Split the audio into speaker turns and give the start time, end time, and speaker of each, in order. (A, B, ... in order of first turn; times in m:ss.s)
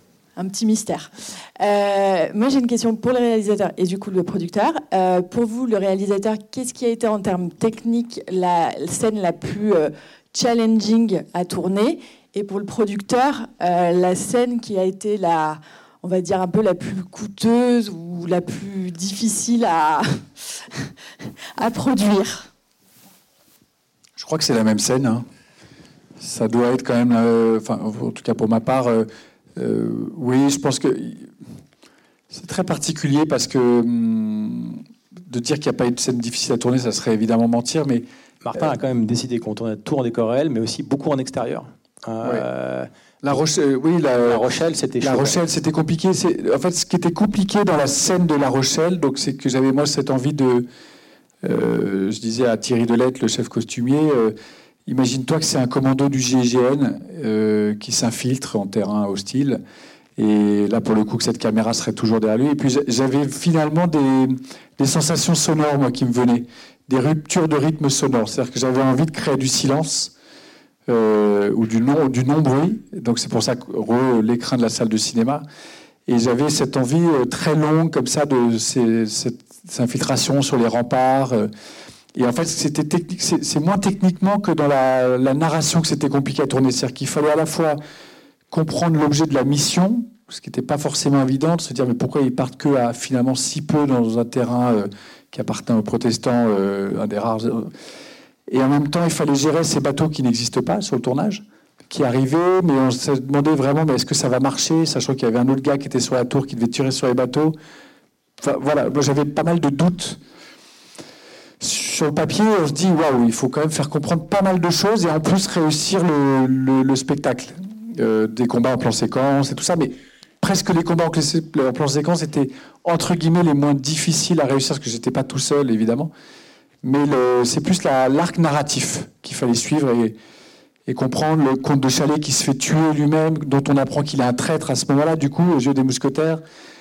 0:00.4-0:20.9 A
0:21.6-0:22.5 A
0:24.2-0:25.2 B
0:26.2-0:31.4 B
0:32.3-0:38.0 B
0:38.4-0:42.9 C
0:43.2-0:44.4 B
0:44.2-0:45.4 C
0:45.0-0:50.7 B
0:51.4-0:54.3 B
0:54.8-0:59.6 B
1:00.2-1:10.1 B
1:10.9-1:15.4 B
1:16.1-1:21.5 B
1:22.1-1:27.8 B
1:28.5-1:37.7 B
1:38.5-1:47.6 B
1:48.4-1:50.2 B
1:51.6-2:06.1 B
2:06.8-2:10.2 B
2:10.9-2:16.4 B